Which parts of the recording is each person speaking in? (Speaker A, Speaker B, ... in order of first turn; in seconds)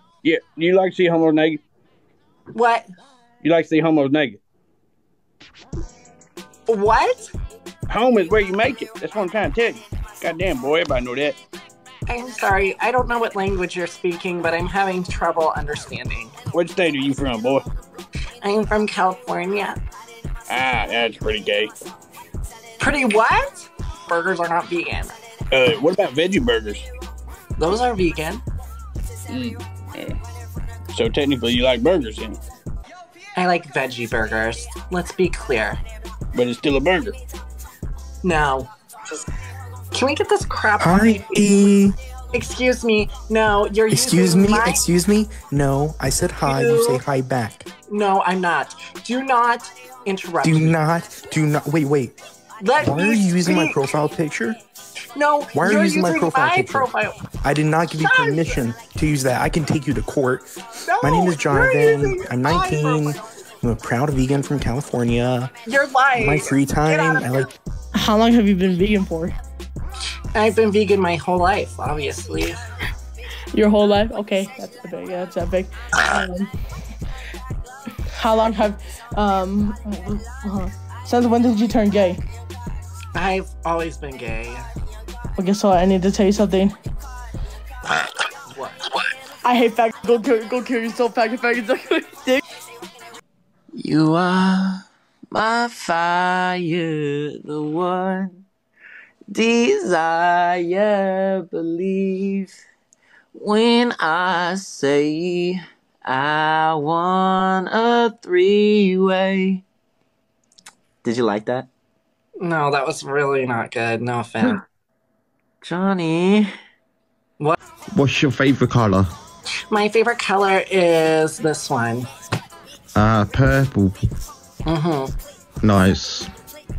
Speaker A: 0.2-1.6, 3.4-4.4, 7.9-11.4, 16.5-17.6, 20.5-21.7, 25.5-26.9, 29.3-30.1, 30.9-32.4, 36.3-37.1
Speaker B: 2.5-2.9, 6.7-7.3, 12.1-16.4, 18.4-19.8, 22.8-25.1, 27.6-28.4, 33.4-35.8, 38.2-38.7, 39.9-41.3, 42.3-44.8, 46.4-47.0, 47.9-50.8, 52.6-53.8, 55.1-57.2, 58.0-58.6, 60.9-63.2, 65.7-67.5, 70.3-72.6, 83.2-84.6, 88.5-88.8, 112.4-114.6, 119.7-122.1, 124.7-125.1
Speaker C: 40.8-42.0, 43.9-47.7, 50.4-52.1, 52.8-54.6, 55.5-56.9, 57.4-60.5, 61.0-65.5, 66.1-67.5
Speaker D: 67.9-69.3, 73.5-76.5, 78.1-82.2, 85.4-86.7, 89.5-92.4
Speaker E: 93.7-98.4, 99.3-102.6, 103.3-109.6, 111.0-111.7, 115.6-116.5
Speaker F: 117.9-119.1, 123.0-124.0, 125.6-126.3